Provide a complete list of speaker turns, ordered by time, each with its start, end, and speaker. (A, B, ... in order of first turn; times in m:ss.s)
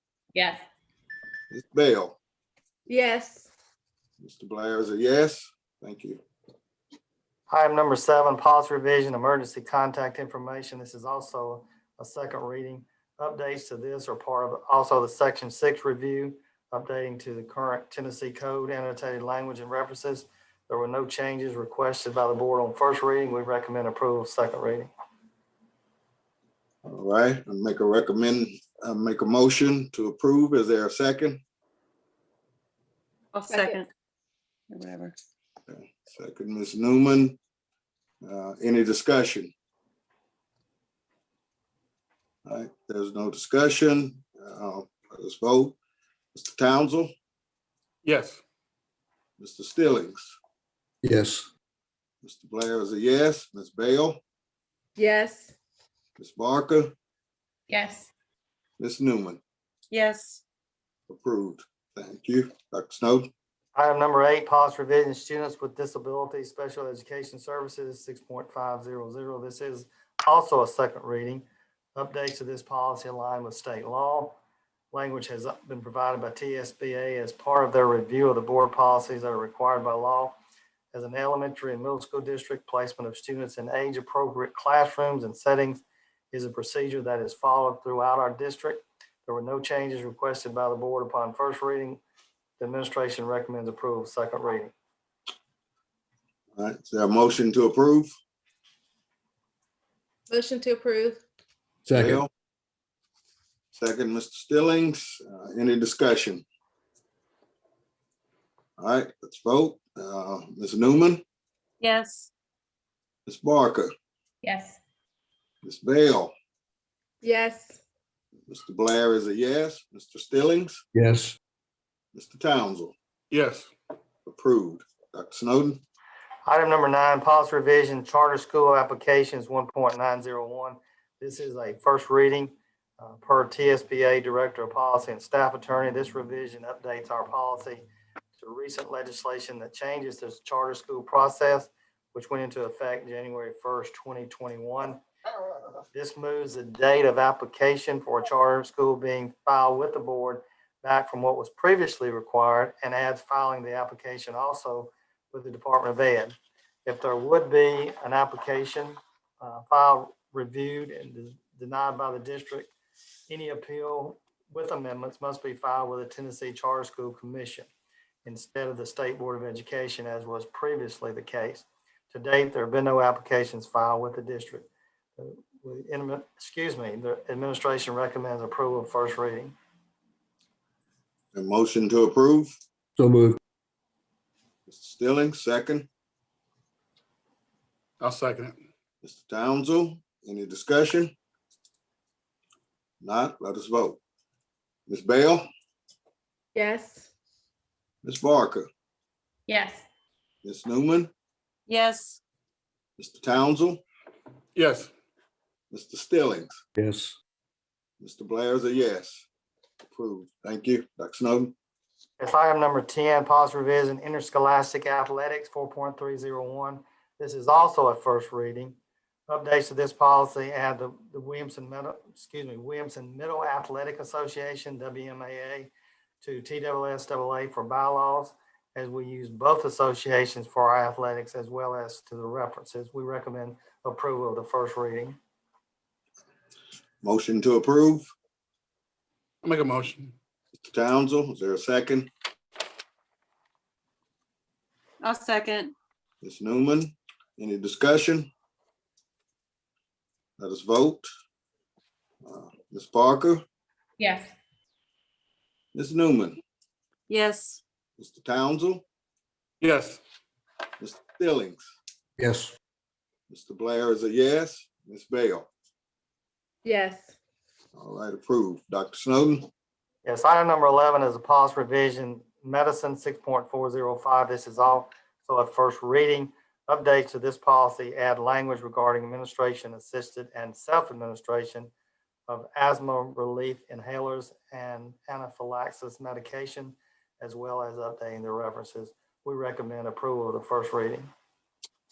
0:00.3-0:00.6 A
0:01.5-0:02.2 B
0:02.9-0:03.5 C
0:04.2-0:06.2 B
0:07.5-0:24.9 D
0:26.8-0:31.4 B
0:33.3-0:33.8 E
0:33.5-0:33.8 C
0:33.5-0:33.8 D
0:34.7-0:35.1 E
0:35.7-0:37.4 B
0:38.2-0:39.5 B
0:42.4-0:45.8 B
0:46.3-0:47.1 B
0:48.0-0:48.4 F
0:49.4-0:50.3 B
0:51.0-0:51.5 G
0:52.2-0:54.2 B
0:55.0-0:55.5 C
0:56.2-0:56.9 B
0:57.7-0:58.1 A
0:58.8-0:59.4 B
0:59.9-1:00.4 E
1:01.1-1:03.3 B
1:03.7-1:14.4 D
1:14.9-1:20.4 D
1:20.9-1:32.0 D
1:32.6-1:34.7 D
1:36.6-1:38.1 B
1:40.3-1:41.2 C
1:41.8-1:42.2 G
1:41.9-1:42.3 B
1:43.7-1:46.4 B
1:48.8-1:51.2 B
1:51.8-1:52.3 E
1:53.2-1:53.9 B
1:54.4-1:54.8 A
1:55.6-1:56.3 B
1:57.2-1:57.8 C
1:58.5-2:00.8 B
2:00.9-2:01.4 G
2:02.1-2:02.9 B
2:03.3-2:03.7 F
2:04.2-2:05.8 B
2:06.4-2:25.0 D
2:25.9-2:42.7 D
2:43.3-2:47.7 D
2:48.2-2:59.6 D
3:01.3-3:02.5 B
3:03.0-3:03.4 G
3:04.7-3:05.9 B
3:08.0-3:08.6 F
3:09.0-3:11.1 B
3:13.0-3:14.0 B
3:14.9-3:15.5 B
3:16.5-3:17.1 C
3:18.0-3:18.7 B
3:19.5-3:19.8 A
3:20.4-3:21.1 B
3:21.7-3:22.2 E
3:23.0-3:23.8 B
3:24.6-3:24.9 F
3:25.7-3:26.6 B
3:26.8-3:27.1 G
3:28.0-3:29.2 B
3:29.9-3:31.5 B
3:32.2-3:38.8 D
3:39.3-3:55.2 D
3:57.0-3:58.1 B
3:59.4-4:00.1 F
4:00.6-4:02.1 B
4:05.0-4:05.7 E
4:06.2-4:08.3 B
4:10.4-4:11.0 B
4:12.2-4:13.4 B
4:14.0-4:14.3 A
4:15.7-4:16.4 B
4:17.1-4:17.6 E
4:18.0-4:18.8 B
4:19.6-4:20.0 F
4:20.8-4:21.6 B
4:22.2-4:22.5 G
4:23.3-4:25.5 B
4:26.6-4:27.1 C
4:27.7-4:29.5 B
4:30.0-4:41.7 D
4:42.3-4:51.1 D